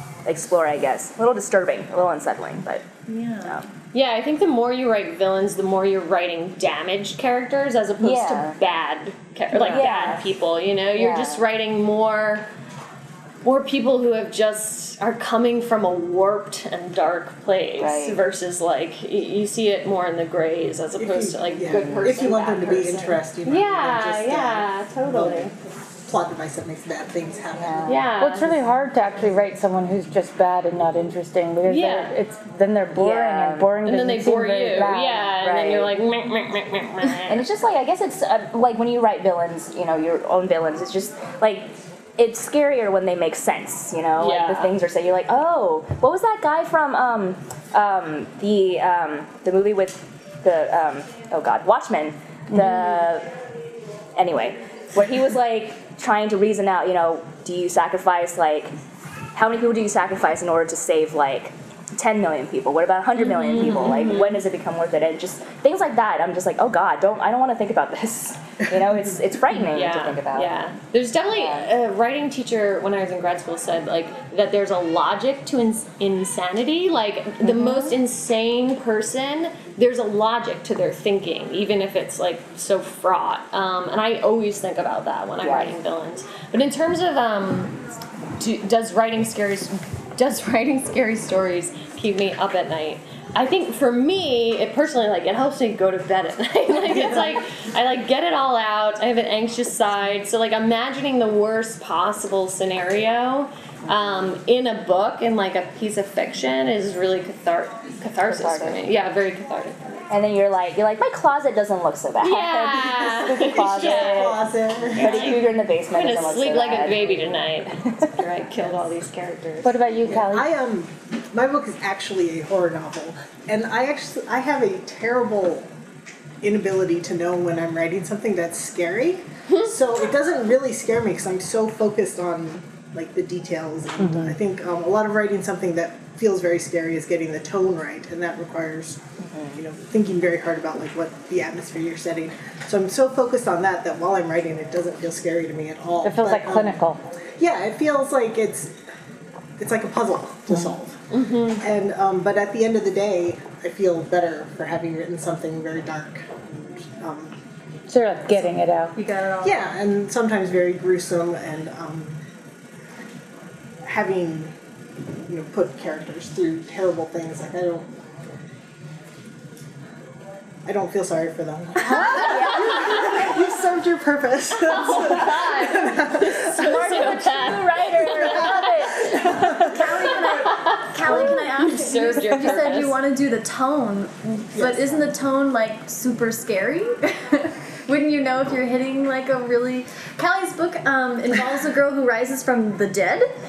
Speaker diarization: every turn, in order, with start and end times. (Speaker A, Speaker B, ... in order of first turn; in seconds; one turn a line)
Speaker A: 0.3-2.9
Speaker B: 3.1-3.5
Speaker A: 3.4-3.7
Speaker C: 3.9-12.5
Speaker A: 8.0-8.6
Speaker A: 9.5-10.3
Speaker A: 10.9-11.4
Speaker C: 13.4-25.5
Speaker A: 17.8-18.2
Speaker D: 21.0-28.0
Speaker A: 27.6-28.0
Speaker C: 27.9-28.6
Speaker E: 28.2-35.4
Speaker C: 31.7-32.1
Speaker A: 33.0-33.8
Speaker C: 33.9-37.5
Speaker A: 35.4-35.9
Speaker A: 37.3-53.3
Speaker C: 44.2-44.7
Speaker E: 52.5-52.8
Speaker A: 54.2-58.7
Speaker A: 59.4-70.5
Speaker C: 63.2-64.4
Speaker C: 69.7-87.8
Speaker A: 71.3-71.7
Speaker A: 77.5-77.9
Speaker A: 85.4-85.8
Speaker C: 88.4-110.0
Speaker A: 108.2-108.8
Speaker A: 110.1-114.4
Speaker C: 112.2-114.4
Speaker D: 113.3-115.4
Speaker A: 115.0-117.3
Speaker C: 115.0-119.8
Speaker E: 119.6-120.5
Speaker D: 120.1-125.7
Speaker D: 126.4-139.0
Speaker E: 134.0-134.4
Speaker A: 139.2-139.6
Speaker D: 139.6-146.8
Speaker E: 146.0-147.0
Speaker D: 147.4-148.7
Speaker D: 149.6-151.0
Speaker C: 151.1-151.6
Speaker D: 151.6-157.3
Speaker E: 157.9-158.9
Speaker B: 159.0-159.7
Speaker D: 159.4-162.2
Speaker D: 163.8-164.5
Speaker D: 165.3-167.9
Speaker D: 170.6-176.8
Speaker A: 171.9-173.1
Speaker C: 171.9-172.7
Speaker B: 172.0-172.3
Speaker C: 174.6-178.5
Speaker A: 176.6-179.0
Speaker B: 176.6-177.6
Speaker D: 179.1-180.2
Speaker B: 179.6-193.3
Speaker C: 180.3-183.0
Speaker D: 181.0-182.7
Speaker D: 184.6-185.1